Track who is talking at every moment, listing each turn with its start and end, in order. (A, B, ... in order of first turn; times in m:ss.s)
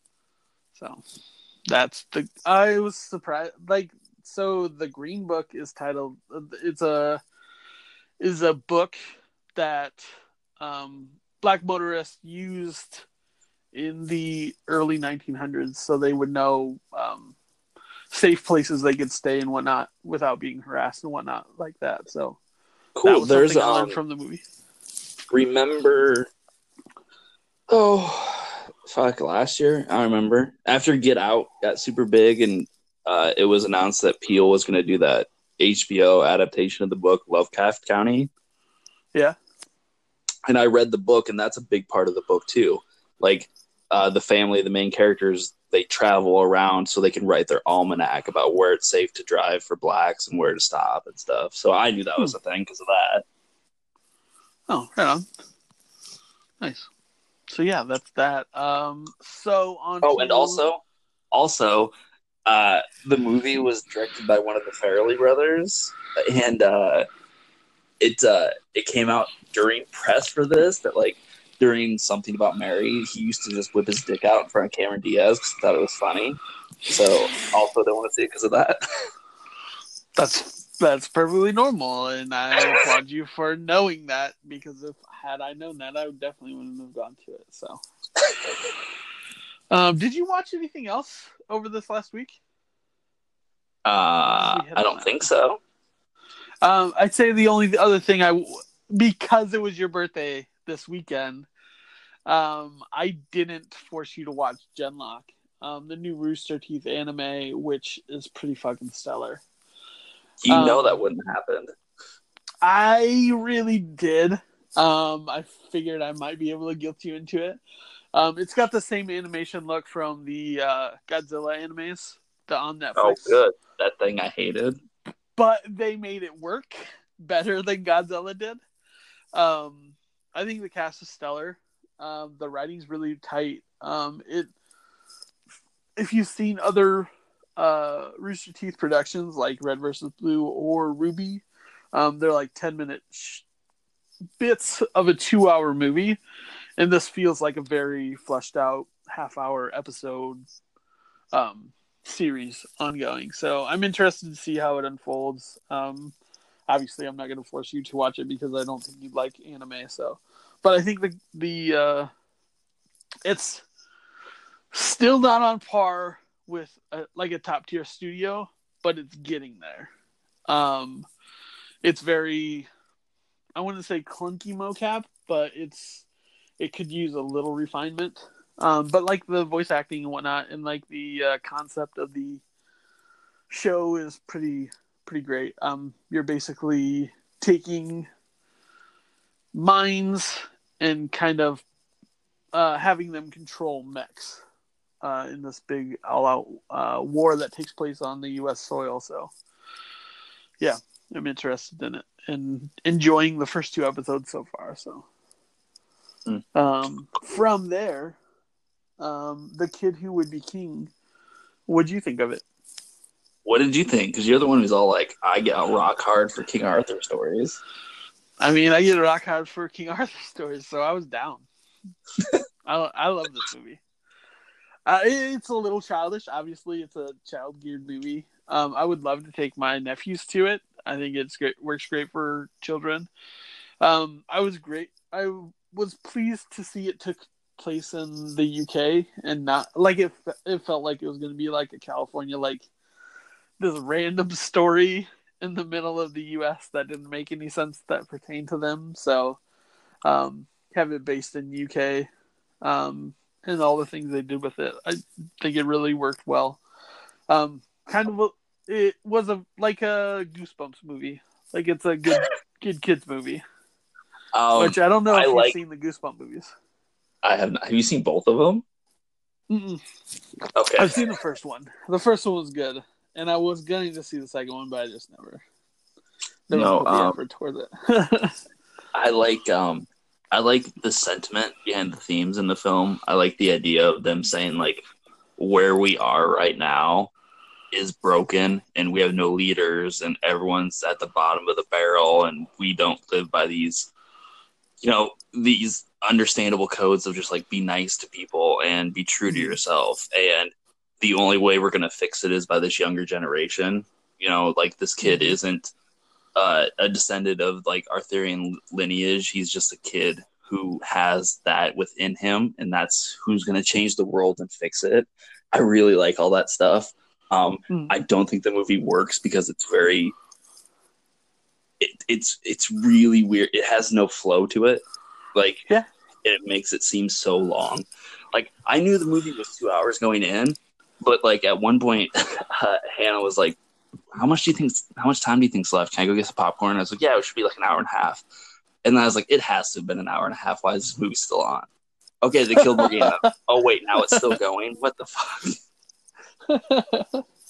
0:00.8-0:01.0 A
0:01.7-0:07.2 A
0:08.2-0:09.0 A
0:09.6-0:10.0 A
0:10.6-0:13.1 A
0:13.7-0:17.4 A
0:18.1-0:22.4 A
0:23.0-0:24.0 B
0:23.0-0:24.4 A
0:25.3-0:26.3 B
0:27.7-0:38.3 B
0:40.5-0:53.2 B
0:54.7-0:55.3 A
0:56.6-0:56.9 A
0:57.5-1:00.6 A
1:00.0-1:00.8 B
1:01.3-1:01.9 B
1:02.5-1:07.1 B
1:08.0-1:18.8 B
1:20.2-1:27.8 A
1:29.7-1:32.4 A
1:33.8-1:35.6 B
1:34.3-1:35.2 A
1:36.6-1:41.5 A
1:42.3-1:49.4 A
1:50.4-1:51.7 B
1:50.5-1:51.0 A
1:52.6-1:57.6 A
1:58.1-2:03.4 A
2:03.0-2:04.8 B
2:05.4-2:08.6 A
2:09.3-2:14.5 A
2:16.0-2:23.5 A
2:24.4-2:26.2 A
2:26.8-2:30.4 A
2:31.3-2:36.1 A
2:36.7-2:42.1 A
2:43.2-2:43.7 A
2:44.7-2:49.9 A
2:50.5-2:51.1 A
2:51.8-2:52.7 A
2:53.6-2:56.1 A
2:56.6-3:02.4 A
3:03.5-3:08.1 A
3:09.5-3:11.6 A
3:12.5-3:14.4 A
3:15.0-3:19.3 A
3:20.6-3:25.1 A
3:26.6-3:28.2 A
3:29.0-3:30.9 A
3:31.7-3:32.4 A
3:33.4-3:37.6 B
3:38.4-3:41.5 A
3:42.7-3:43.8 A
3:44.9-3:53.1 A
3:53.8-4:02.7 A
4:03.6-4:09.4 A
4:10.0-4:12.1 A
4:12.6-4:16.6 A
4:17.3-4:23.4 A
4:24.3-4:25.6 B
4:24.6-4:26.5 A
4:27.2-4:28.6 B
4:29.5-4:29.8 A
4:30.6-4:31.0 B
4:30.8-4:35.4 A
4:36.5-4:38.4 A
4:36.5-4:37.2 B
4:38.9-4:44.8 B
4:45.4-4:47.1 B
4:47.7-4:53.9 B
4:54.8-5:05.7 B
4:59.3-4:59.6 A
5:05.0-5:05.4 A
5:06.4-5:20.2 B
5:17.7-5:18.0 A
5:21.8-5:24.8 B
5:25.3-5:25.6 B
5:26.2-5:33.6 B
5:34.2-5:38.2 B
5:38.8-5:41.7 B
5:42.2-5:45.6 B
5:42.6-5:43.3 A
5:44.0-5:44.3 A
5:46.5-5:47.2 A